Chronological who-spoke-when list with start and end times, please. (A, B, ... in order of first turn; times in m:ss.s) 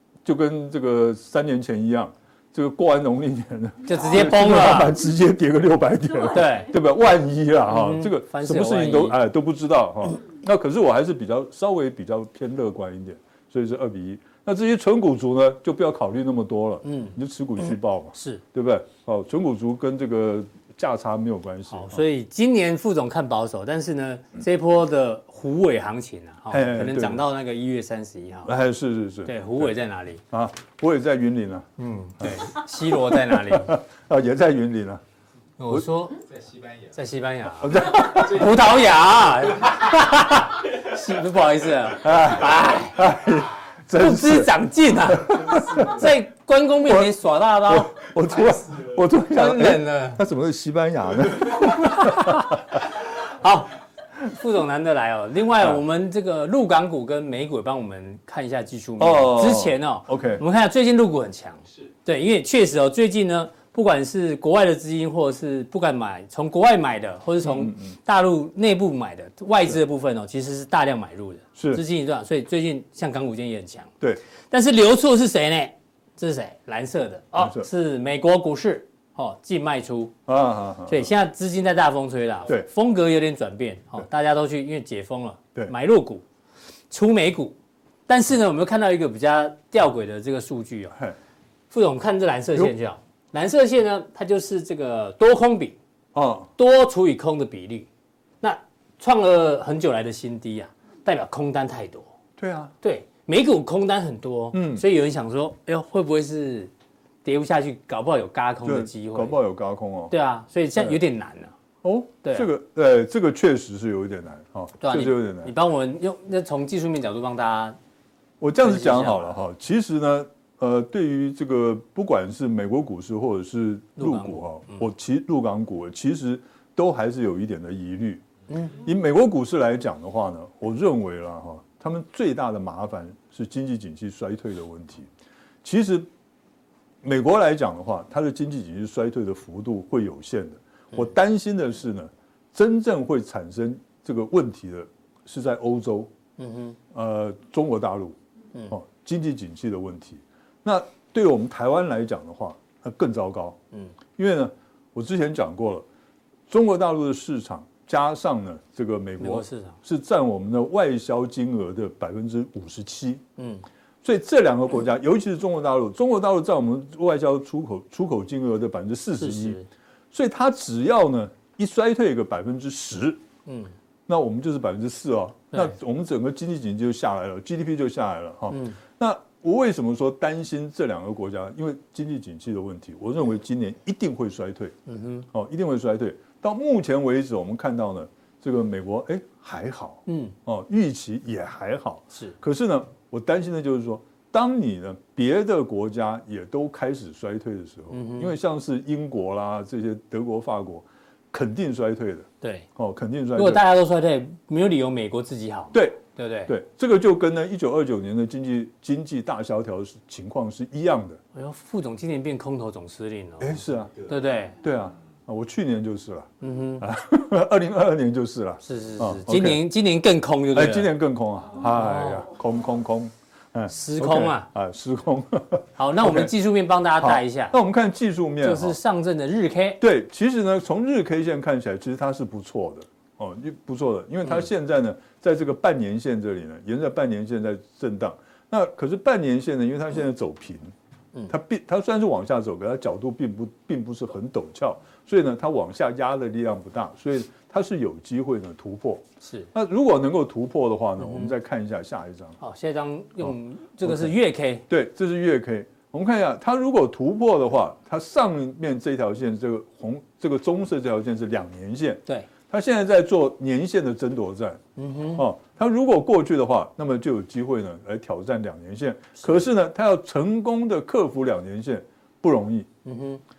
0:00.2-0:22.0 A
0:03.8-0:05.0 B
0:06.3-0:06.7 B
0:07.7-0:09.2 B
0:16.8-0:17.2 B
0:18.1-0:18.4 B
0:21.7-0:28.5 B
0:26.5-0:27.2 A
0:28.4-0:29.7 A
0:29.2-0:30.2 B
0:30.3-0:31.7 A
0:31.8-0:33.8 B
0:32.2-0:35.0 A
0:35.6-0:36.2 B
0:36.2-0:37.0 C
0:36.9-0:43.0 B
0:37.6-0:38.4 A
0:38.0-0:40.0 C
0:42.0-0:46.1 A
0:43.9-0:48.0 B
0:45.2-0:46.1 C
0:47.6-0:52.8 A
0:48.3-0:49.0 C
0:49.3-0:50.2 B
0:51.6-0:52.6 B
0:53.2-1:13.9 B
0:59.0-1:00.4 A
1:07.4-1:08.0 A
1:11.5-1:11.8 A
1:14.5-1:20.1 B
1:17.3-1:17.7 A
1:20.3-1:21.1 A
1:20.9-1:26.2 B
1:26.9-1:27.6 B
1:28.1-1:31.0 B
1:31.7-1:35.8 B
1:36.1-1:36.5 A
1:36.6-1:37.9 B
1:38.4-1:42.1 B
1:42.4-1:42.7 A
1:42.8-1:46.7 B
1:44.5-1:44.8 A
1:47.2-1:49.4 B
1:48.6-1:50.1 A
1:50.1-1:51.5 B
1:51.8-1:55.5 A
1:54.8-1:57.8 B
1:58.4-2:08.2 A
1:58.6-1:59.3 B
2:04.0-2:04.8 B
2:08.5-2:08.8 B
2:08.8-2:15.1 A
2:15.6-2:16.1 A
2:17.0-2:26.1 A
2:26.4-2:26.8 B
2:26.9-2:28.2 A
2:28.7-2:33.6 A
2:34.2-2:35.8 A
2:36.5-2:43.2 A
2:39.2-2:39.8 B
2:43.4-2:43.6 B
2:44.0-2:49.6 A
2:49.2-2:49.7 B
2:50.1-2:53.2 A
2:53.4-2:53.7 B
2:54.1-3:04.7 A
2:58.5-2:58.8 B
3:04.8-3:05.2 B
3:05.3-3:23.6 A
3:10.0-3:10.3 B
3:17.9-3:18.3 B
3:22.4-3:22.7 B
3:23.3-3:26.5 B
3:25.7-3:31.2 A
3:31.3-3:34.6 B
3:33.4-3:33.9 A
3:34.6-3:39.6 A
3:36.4-3:36.8 B
3:38.6-3:40.9 B
3:40.5-3:46.3 A
3:41.6-3:42.3 B
3:43.7-3:44.5 B
3:45.8-3:47.5 B
3:47.0-3:48.8 A
3:48.4-3:49.8 B
3:49.8-4:00.7 A
4:01.3-4:12.4 A
4:09.2-4:09.5 B
4:11.0-4:11.3 B
4:12.4-4:14.6 B
4:13.2-4:14.1 A
4:14.7-4:24.6 A
4:24.8-4:25.2 B
4:25.1-4:32.7 A
4:32.8-4:33.2 B